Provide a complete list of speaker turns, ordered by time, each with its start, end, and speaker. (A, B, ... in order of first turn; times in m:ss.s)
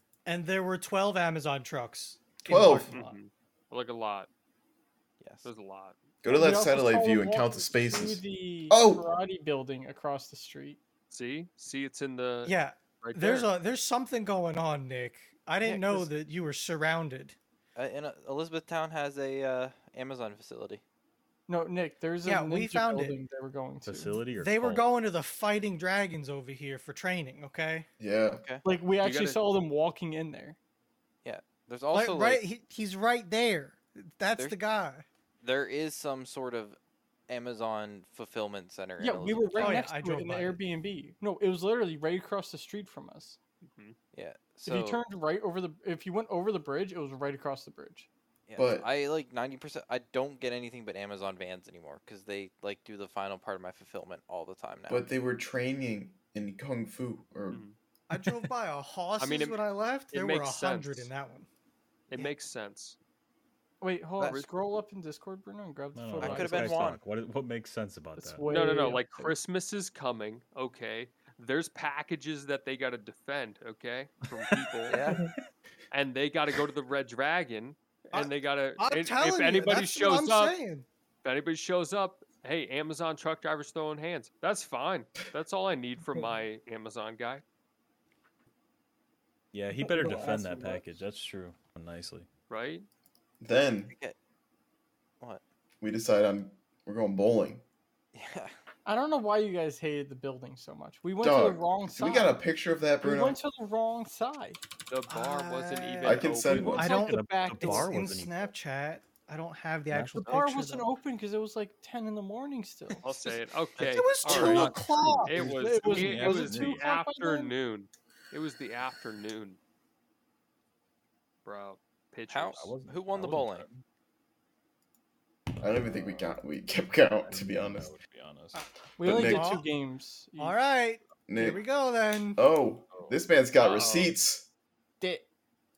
0:00.3-0:03.2 A
0:02.5-0:02.9 B
0:02.9-0:04.3 C
0:05.2-0:05.5 D
0:05.4-0:06.0 C
0:06.2-0:09.0 B
0:06.3-0:10.8 E
0:11.1-0:13.5 C
0:12.4-0:17.4 A
0:15.6-0:16.1 D
0:17.8-0:20.8 D
0:21.5-0:24.2 E
0:22.2-0:23.2 A
0:23.9-0:24.9 F
0:24.4-0:27.9 A
0:28.0-0:28.4 B
0:28.3-0:28.6 D
0:28.6-0:30.6 E
0:29.0-0:29.4 C
0:31.2-0:32.4 D
0:31.9-0:35.1 A
0:35.4-0:36.8 D
0:37.3-0:39.8 D
0:39.0-0:43.4 E
0:39.6-0:40.6 A
0:43.6-0:44.0 C
0:44.1-0:45.0 D
0:44.7-0:48.1 E
0:48.5-0:55.0 D
0:48.6-0:48.9 B
0:54.9-0:57.6 B
0:57.5-0:57.8 C
0:58.1-1:01.5 A
0:59.2-0:59.6 C
1:00.1-1:01.1 C
1:02.1-1:03.0 C
1:03.8-1:07.0 E
1:04.2-1:04.5 C
1:06.0-1:08.5 F
1:06.2-1:07.0 D
1:08.2-1:09.3 E
1:08.5-1:15.1 C
1:14.9-1:15.2 D
1:15.9-1:20.6 C
1:18.1-1:20.9 A
1:21.2-1:27.4 C
1:29.5-1:32.3 F
1:29.9-1:30.8 E
1:32.5-1:32.9 C
1:33.4-1:33.9 B
1:33.9-1:34.2 D
1:35.8-1:37.6 B
1:38.1-1:38.6 D
1:38.8-1:42.4 E
1:41.2-1:43.4 B
1:43.0-1:44.6 E
1:44.9-1:46.8 C
1:45.1-1:50.9 A
1:46.0-1:46.9 B
1:46.6-1:47.9 E
1:46.9-1:48.5 F
1:49.9-1:50.3 F
1:50.2-1:53.0 E
1:53.0-1:59.6 C
1:53.0-1:55.4 A
1:54.2-1:56.8 F
1:55.4-1:57.5 E
2:01.4-2:02.7 C
2:02.3-2:03.7 D
2:02.5-2:03.8 F
2:05.6-2:07.9 B
2:05.6-2:06.3 F
2:07.2-2:08.6 F
2:08.6-2:09.7 A
2:09.0-2:10.6 E
2:09.0-2:09.5 B
2:10.4-2:12.4 A
2:11.3-2:11.6 B
2:12.4-2:14.5 B
2:12.9-2:14.2 C
2:15.0-2:15.3 E